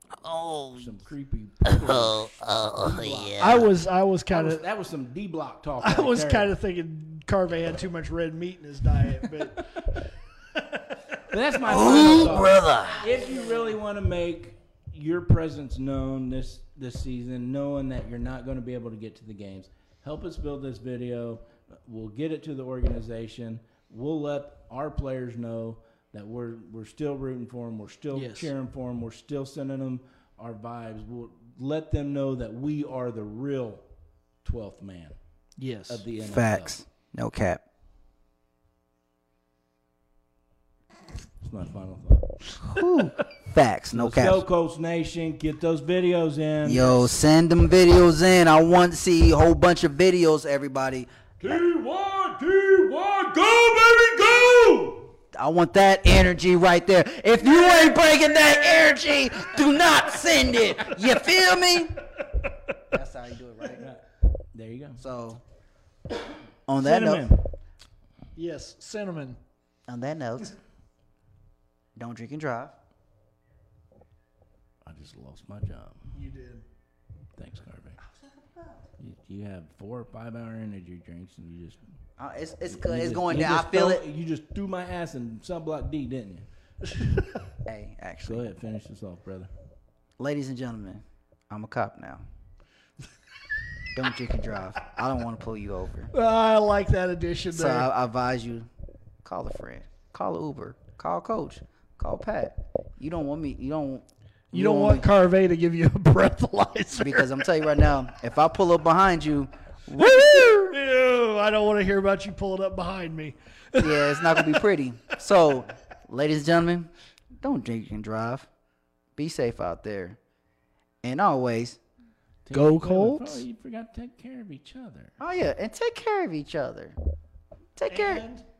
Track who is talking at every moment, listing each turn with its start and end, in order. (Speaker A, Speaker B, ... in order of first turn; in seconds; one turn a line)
Speaker A: 0.2-0.9
Speaker B: 0.8-3.7
Speaker A: 1.6-3.7
Speaker C: 3.4-4.6
Speaker B: 4.3-6.5
Speaker C: 5.8-13.7
Speaker B: 11.3-33.8
Speaker A: 11.7-13.1
Speaker C: 28.1-28.5
Speaker B: 34.4-35.2
Speaker C: 35.6-36.1
Speaker B: 35.9-36.8
Speaker A: 36.2-37.6
Speaker B: 41.4-42.3
Speaker A: 42.7-44.4
Speaker B: 43.9-47.1
Speaker A: 46.6-51.6
Speaker B: 51.4-55.1
Speaker A: 55.3-62.0
Speaker A: 62.9-63.9
Speaker B: 63.8-65.0
Speaker A: 65.0-65.4
Speaker A: 66.7-67.3
Speaker C: 66.8-67.3
Speaker B: 66.8-67.4
Speaker C: 68.4-69.4
Speaker A: 69.9-70.5
Speaker A: 72.0-72.8
Speaker B: 74.8-76.1
Speaker C: 76.1-76.7
Speaker B: 77.4-78.0
Speaker B: 79.0-81.8
Speaker A: 82.2-84.0
Speaker B: 82.7-86.5
Speaker C: 86.9-87.2
Speaker A: 87.7-88.5
Speaker B: 88.2-89.5
Speaker A: 90.2-92.2
Speaker A: 93.9-96.1
Speaker C: 96.1-97.9
Speaker A: 97.5-98.7
Speaker A: 99.2-105.1
Speaker C: 104.5-107.4
Speaker A: 107.0-110.8
Speaker C: 110.0-115.2
Speaker A: 113.8-118.5
Speaker A: 119.2-120.2
Speaker A: 121.0-121.8
Speaker B: 122.5-125.2
Speaker C: 122.5-123.4
Speaker A: 125.2-127.0
Speaker A: 127.8-128.2
Speaker C: 127.9-128.4